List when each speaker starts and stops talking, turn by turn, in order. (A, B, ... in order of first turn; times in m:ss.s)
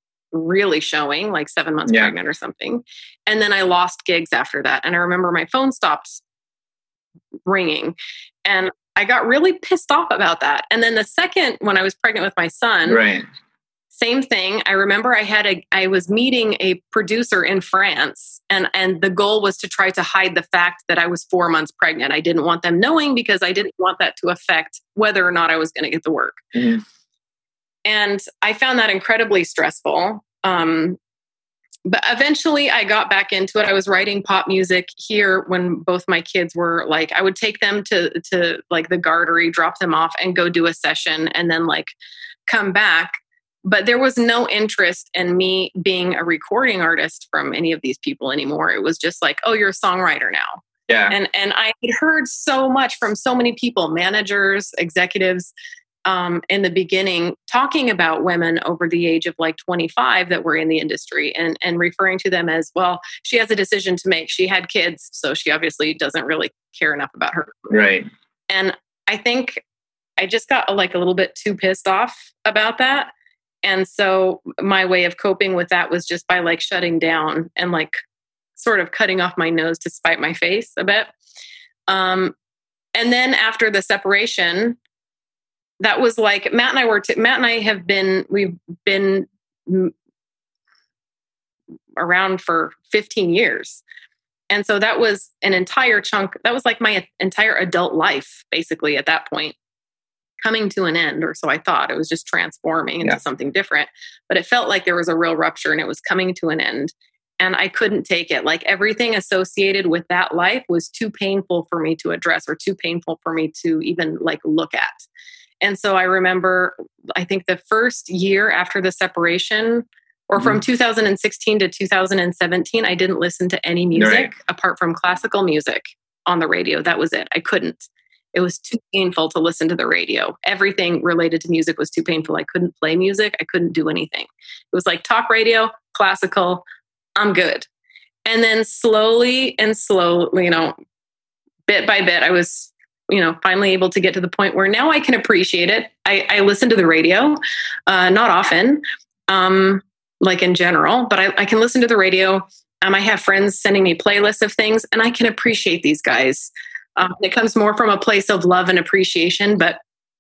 0:00.3-0:06.2 A
0:01.9-0:02.1 B
0:07.4-0:13.0 A
0:12.8-0:13.2 B
0:13.9-0:26.4 A
0:26.5-0:26.8 B
0:27.8-0:31.0 A
0:31.8-0:41.9 A
0:42.5-0:55.5 A
0:50.9-0:51.2 B
0:56.0-1:07.8 A
1:07.7-1:08.1 B
1:08.5-1:09.6 A
1:10.2-1:13.1 A
1:13.6-1:18.0 A
1:18.6-1:21.1 A
1:21.9-1:22.3 A
1:22.9-1:24.8 A
1:25.8-1:29.9 A
1:32.0-1:33.8 A
1:34.5-1:39.6 A
1:40.4-1:55.0 A
1:55.6-2:16.6 A
2:03.9-2:04.3 B
2:17.2-2:17.7 A
2:18.2-2:20.8 A
2:21.7-2:39.8 A